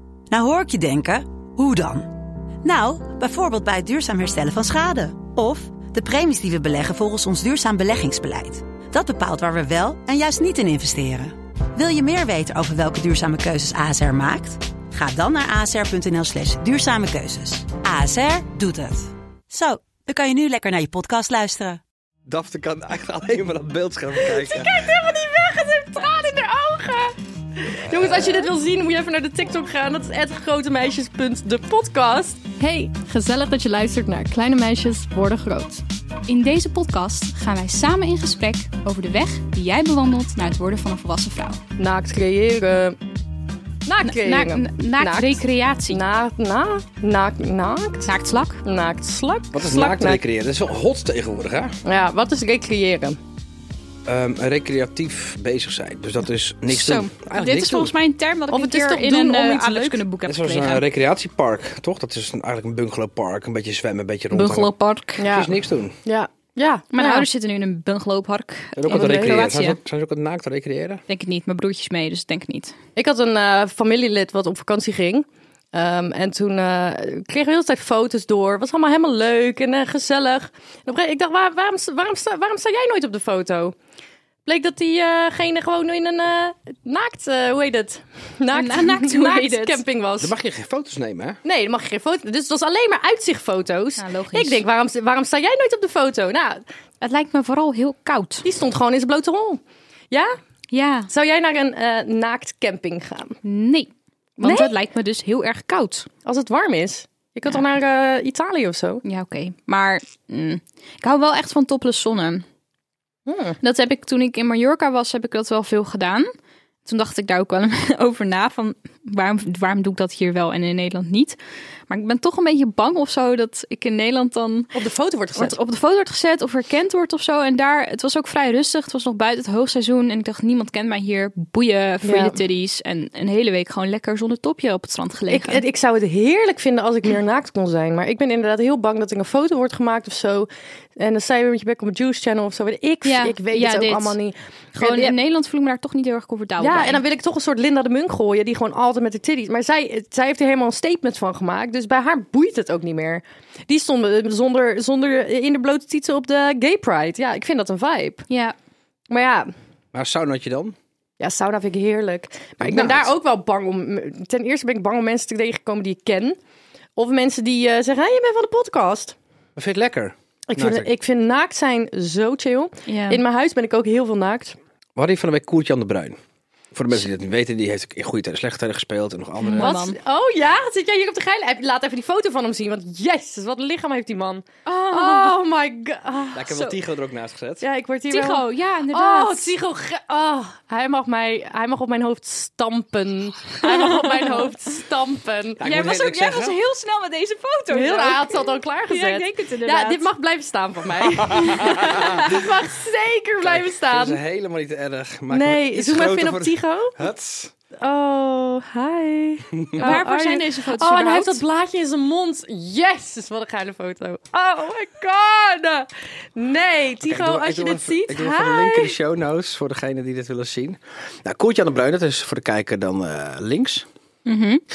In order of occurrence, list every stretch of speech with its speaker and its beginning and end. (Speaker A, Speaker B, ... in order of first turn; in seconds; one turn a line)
Speaker A: 0.3-21.8
Speaker B: 22.3-24.8
Speaker C: 24.2-35.8
Speaker B: 27.9-28.5
Speaker D: 36.3-41.6
Speaker C: 41.8-43.0
Speaker C: 43.8-48.1
Speaker D: 44.0-46.0
Speaker D: 48.0-48.6
Speaker C: 48.6-50.2
Speaker B: 49.5-51.7
Speaker C: 51.8-53.2
Speaker B: 54.0-57.9
Speaker D: 56.7-60.8
Speaker C: 58.5-60.0
Speaker B: 60.2-65.9
Speaker D: 64.3-65.3
Speaker C: 65.2-67.2
Speaker D: 66.9-69.8
Speaker B: 68.8-71.0
Speaker C: 68.9-69.4
Speaker D: 71.1-72.8
Speaker C: 73.0-83.7
Speaker C: 84.5-90.3
Speaker D: 88.5-89.8
Speaker B: 90.2-91.4
Speaker C: 91.4-96.6
Speaker D: 94.0-94.6
Speaker D: 97.0-98.5
Speaker C: 98.4-100.3
Speaker D: 100.7-101.1
Speaker C: 101.1-103.4
Speaker D: 103.4-106.1
Speaker C: 104.4-104.7
Speaker C: 106.2-109.0
Speaker D: 109.0-112.4
Speaker C: 113.3-113.6
Speaker D: 113.6-116.3
Speaker D: 116.8-121.4
Speaker D: 121.9-124.7
Speaker C: 124.7-125.6
Speaker D: 125.3-135.6
Speaker C: 132.0-132.4
Speaker C: 135.3-145.2
Speaker D: 143.0-144.2
Speaker D: 144.7-147.0
Speaker C: 146.6-158.2
Speaker D: 158.3-158.5
Speaker C: 159.1-159.5
Speaker B: 159.9-160.7
Speaker C: 161.2-166.4
Speaker B: 162.6-163.1
Speaker C: 166.9-169.2
Speaker B: 169.6-170.9
Speaker C: 170.5-174.6
Speaker D: 172.8-173.2
Speaker B: 174.9-176.2
Speaker B: 176.7-179.7
Speaker D: 179.4-180.0
Speaker C: 179.6-186.4
Speaker D: 184.7-185.4
Speaker B: 186.3-187.6
Speaker D: 186.5-186.8
Speaker C: 187.6-195.6
Speaker D: 188.1-189.5
Speaker D: 193.6-194.5
Speaker B: 195.6-196.6
Speaker D: 195.6-200.1
Speaker C: 197.7-204.2
Speaker B: 201.0-202.5
Speaker B: 203.4-207.5
Speaker C: 205.3-206.9
Speaker C: 207.8-218.9
Speaker B: 209.6-209.9
Speaker D: 209.8-211.4
Speaker B: 217.0-223.8
Speaker D: 224.2-224.6